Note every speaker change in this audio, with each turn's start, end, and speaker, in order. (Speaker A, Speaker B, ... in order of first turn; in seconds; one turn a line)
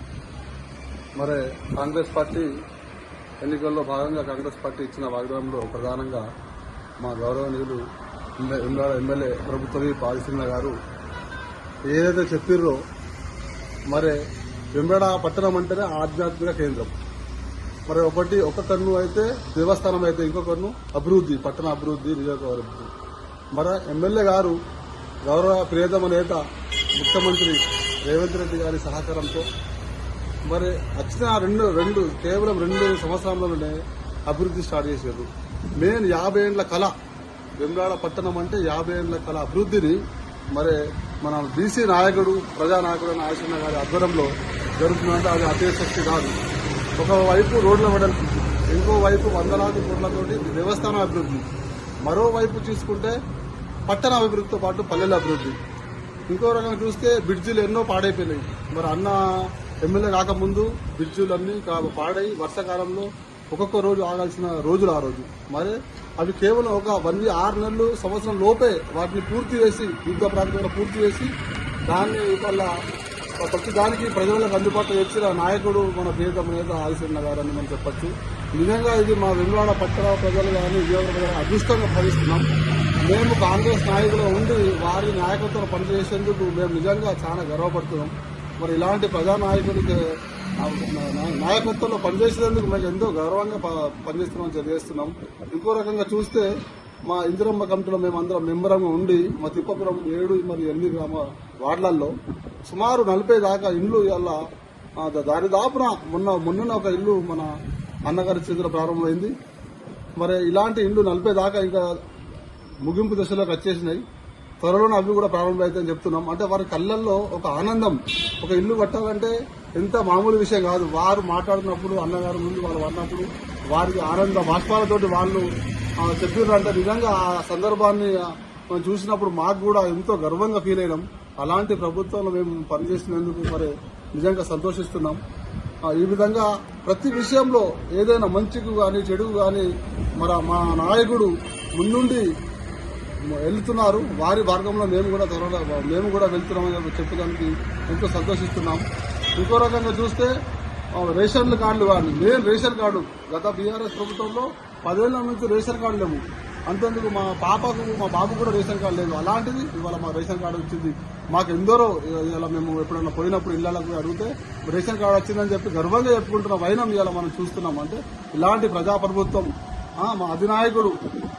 Speaker A: 1.2-2.5
Speaker A: 3.4-6.2
Speaker A: 7.0-7.8
Speaker A: 8.4-10.7
Speaker A: 11.9-12.8
Speaker A: 13.9-14.2
Speaker A: 14.8-16.9
Speaker A: 17.9-22.9
Speaker A: 23.5-24.6
Speaker A: 25.3-26.4
Speaker A: 26.9-29.4
Speaker A: 30.5-33.8
Speaker A: 34.3-35.3
Speaker A: 35.8-36.9
Speaker A: 37.6-40.0
Speaker A: 40.5-46.3
Speaker A: 47.0-51.5
Speaker A: 52.1-53.1
Speaker A: 53.9-55.6
Speaker A: 56.3-71.3
Speaker A: 71.9-72.7
Speaker A: 73.4-82.5
Speaker A: 83.0-90.0
Speaker A: 90.6-96.5
Speaker A: 97.0-102.1
Speaker A: 102.6-104.4
Speaker A: 105.0-107.5
Speaker A: 108.1-109.3
Speaker A: 110.2-112.0
Speaker A: 112.8-114.0
Speaker A: 114.6-125.5
Speaker A: 126.0-128.2
Speaker A: 128.7-135.2
Speaker A: 135.9-139.7
Speaker A: 140.2-142.2
Speaker A: 143.3-150.3
Speaker A: 151.0-169.5
Speaker A: 170.0-171.0